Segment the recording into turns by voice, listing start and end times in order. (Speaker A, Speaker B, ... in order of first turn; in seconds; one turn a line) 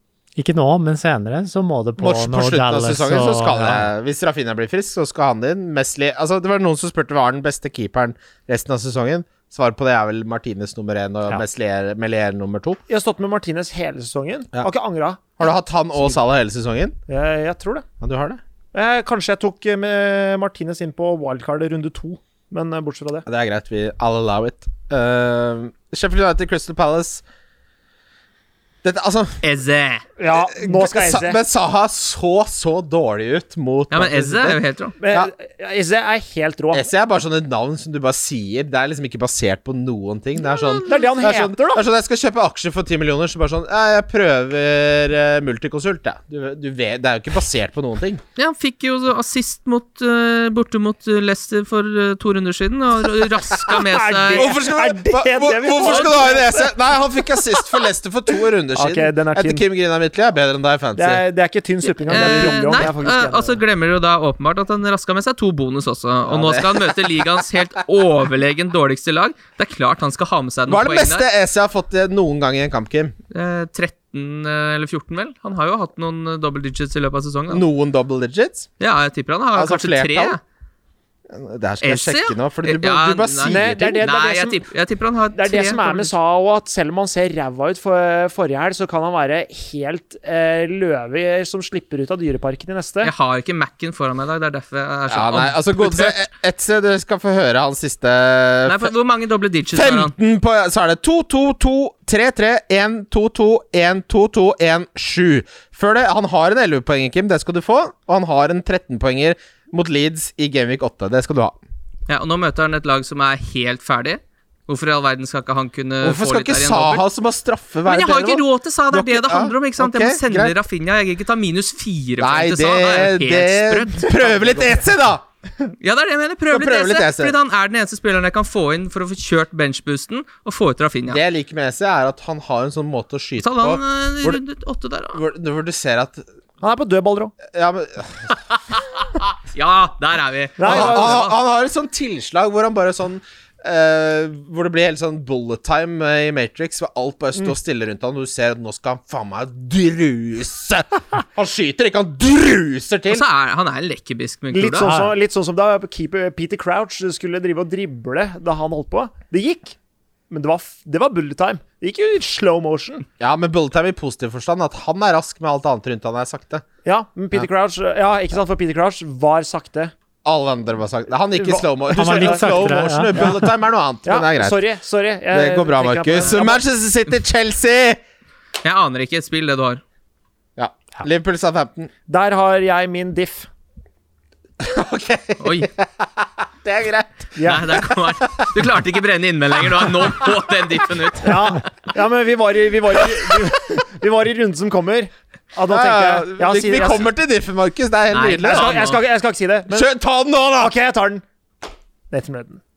Speaker A: 0.4-3.9
Speaker B: 2.0-12.8
Speaker C: 12.9-15.4
Speaker B: 15.4-16.9
Speaker C: 17.1-17.9
Speaker B: 18.0-18.4
Speaker C: 18.7-23.2
Speaker B: 23.2-27.2
Speaker B: 28.8-29.4
Speaker D: 29.4-30.0
Speaker C: 30.2-31.4
Speaker B: 30.3-35.3
Speaker D: 33.9-34.9
Speaker C: 35.0-36.9
Speaker B: 36.7-48.2
Speaker C: 40.8-41.8
Speaker D: 48.4-54.5
Speaker C: 53.7-56.7
Speaker B: 54.3-61.2
Speaker D: 55.8-56.2
Speaker C: 58.7-59.6
Speaker C: 61.0-63.6
Speaker D: 62.0-71.2
Speaker B: 62.1-62.9
Speaker B: 66.3-67.1
Speaker B: 70.7-73.1
Speaker D: 73.3-77.6
Speaker B: 77.5-78.7
Speaker D: 78.8-80.4
Speaker B: 79.5-80.4
Speaker B: 81.3-84.0
Speaker D: 81.8-86.1
Speaker C: 83.5-84.6
Speaker C: 85.3-93.1
Speaker D: 93.0-96.2
Speaker B: 95.1-98.9
Speaker D: 98.7-100.1
Speaker B: 99.7-111.6
Speaker D: 112.1-117.0
Speaker B: 116.0-120.5
Speaker D: 117.8-124.7
Speaker B: 122.2-125.2
Speaker D: 125.8-131.2
Speaker B: 126.5-127.3
Speaker B: 131.1-134.4
Speaker D: 133.4-135.2
Speaker B: 135.1-136.2
Speaker C: 136.6-137.3
Speaker B: 137.5-138.4
Speaker D: 138.7-141.3
Speaker C: 140.6-141.1
Speaker B: 140.6-153.2
Speaker D: 153.1-154.9
Speaker C: 154.5-159.8
Speaker A: 154.8-155.1
Speaker C: 160.3-163.1
Speaker B: 163.2-166.6
Speaker C: 166.8-169.9
Speaker B: 170.2-174.6
Speaker C: 171.3-173.3
Speaker A: 171.9-173.3
Speaker C: 174.0-176.6
Speaker B: 175.3-178.0
Speaker D: 178.6-179.8
Speaker B: 180.6-181.9
Speaker C: 182.1-183.5
Speaker B: 184.6-188.5
Speaker D: 185.4-185.7
Speaker C: 187.4-187.7
Speaker D: 187.4-191.7
Speaker C: 191.2-197.1
Speaker B: 195.7-198.8
Speaker D: 198.1-199.0
Speaker C: 198.4-199.9
Speaker B: 199.7-200.7
Speaker C: 200.6-201.2
Speaker C: 202.1-202.6